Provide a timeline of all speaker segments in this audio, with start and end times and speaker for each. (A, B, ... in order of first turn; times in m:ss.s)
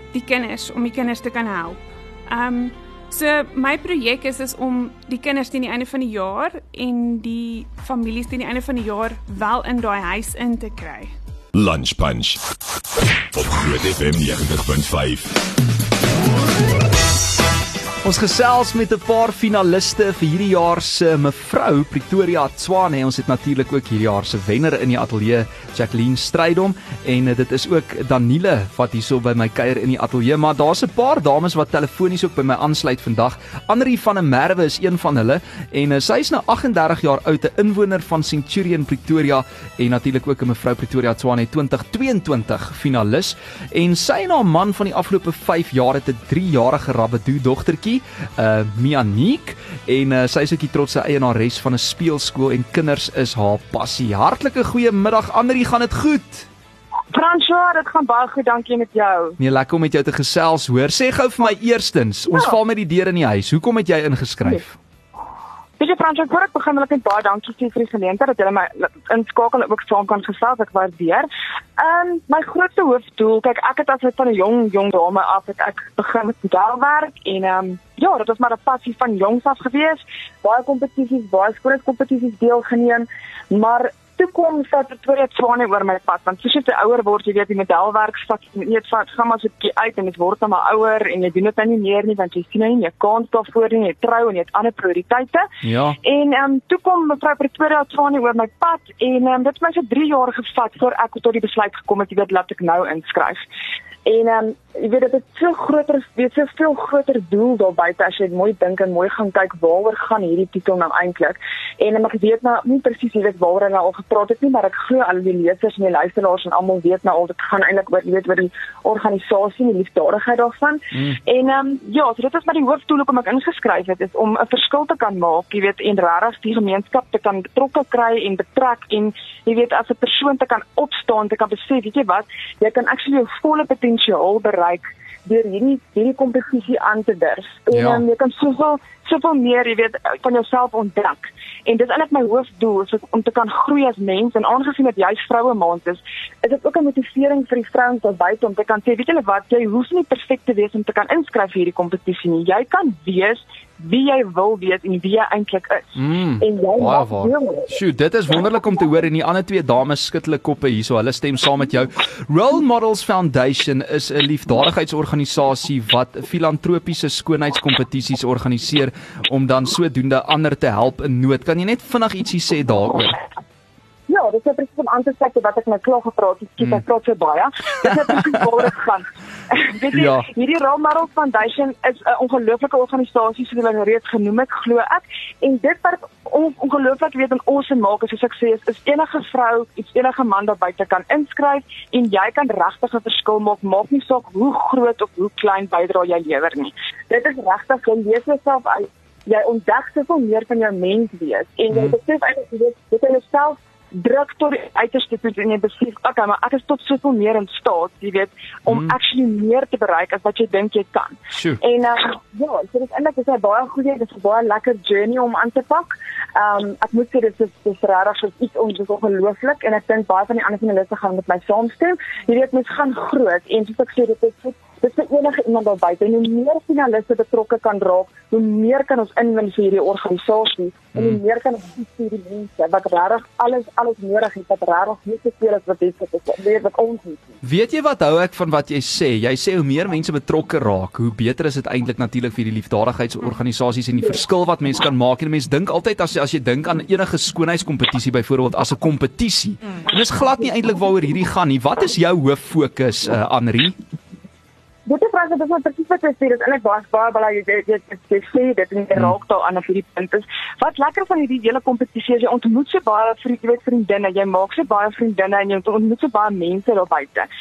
0:00.1-0:11.1 A
0:11.5-0:12.4 B
0:13.3-0:15.4 B
0:18.0-0:56.5 C
0:57.1-0:59.4 D
0:59.4-1:04.8 C
1:05.8-1:35.5 D
1:35.6-1:36.0 C
1:36.0-1:43.4 D
1:44.0-2:37.7 D
2:00.9-2:01.2 C
2:17.7-2:18.0 C
2:35.9-2:53.1 C
2:54.1-3:57.3 D
2:57.8-2:58.1 C
2:59.9-3:00.3 C
3:21.7-3:22.0 C
3:28.7-3:29.0 C
3:31.3-3:31.6 C
3:50.9-3:51.2 C
3:57.4-4:13.8 C
4:14.8-4:27.3 D